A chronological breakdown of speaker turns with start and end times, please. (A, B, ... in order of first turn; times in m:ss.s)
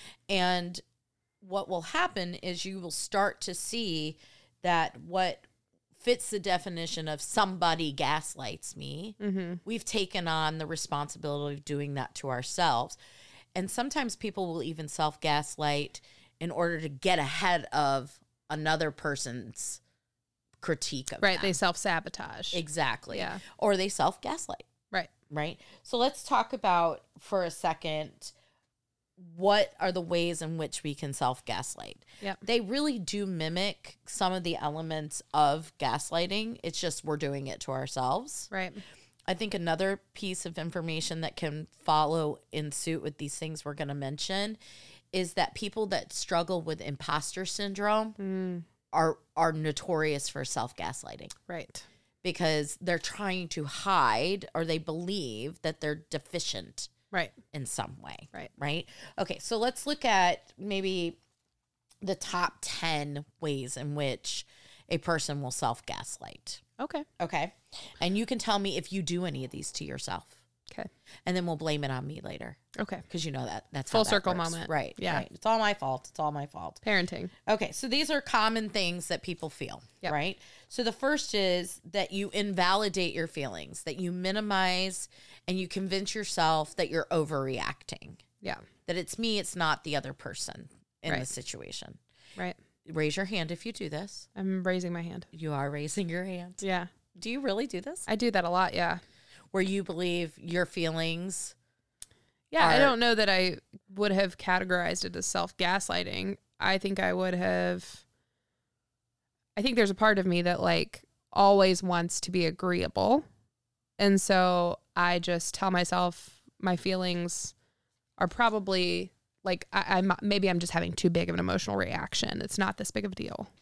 0:00.3-0:00.8 A
0:01.4-0:05.5 A
0:06.0-0:13.0 A
0:09.2-0:09.6 B
0:13.6-0:19.8 A
0:20.6-0:21.6 A
0:21.2-0:23.4 B
0:22.5-0:24.7 A
0:25.3-0:28.3 A
0:29.2-0:38.5 A
0:38.5-0:38.8 B
0:39.3-0:44.6 A
0:45.1-0:48.2 A
0:48.2-0:48.7 B
0:48.9-0:51.4 A
0:51.5-0:51.9 B
0:52.2-0:56.9 A
0:57.5-1:01.2 A
1:02.0-1:06.6 A
1:06.8-1:07.1 B
1:07.2-1:10.4 A
1:11.3-1:16.8 A
1:12.8-1:13.0 B
1:13.9-1:15.2 B
1:16.8-1:17.3 B
1:17.5-1:28.2 A
1:28.9-1:32.0 A
1:32.8-1:34.3 A
1:34.4-1:35.3 B
1:35.3-1:36.6 A
1:36.6-1:36.9 B
1:37.2-1:38.1 A
1:38.1-1:39.0 B
1:39.5-1:41.6 A
1:42.5-1:48.0 B
1:42.6-1:43.0 A
1:49.6-1:53.2 B
1:54.0-1:57.5 B
1:58.2-2:03.5 B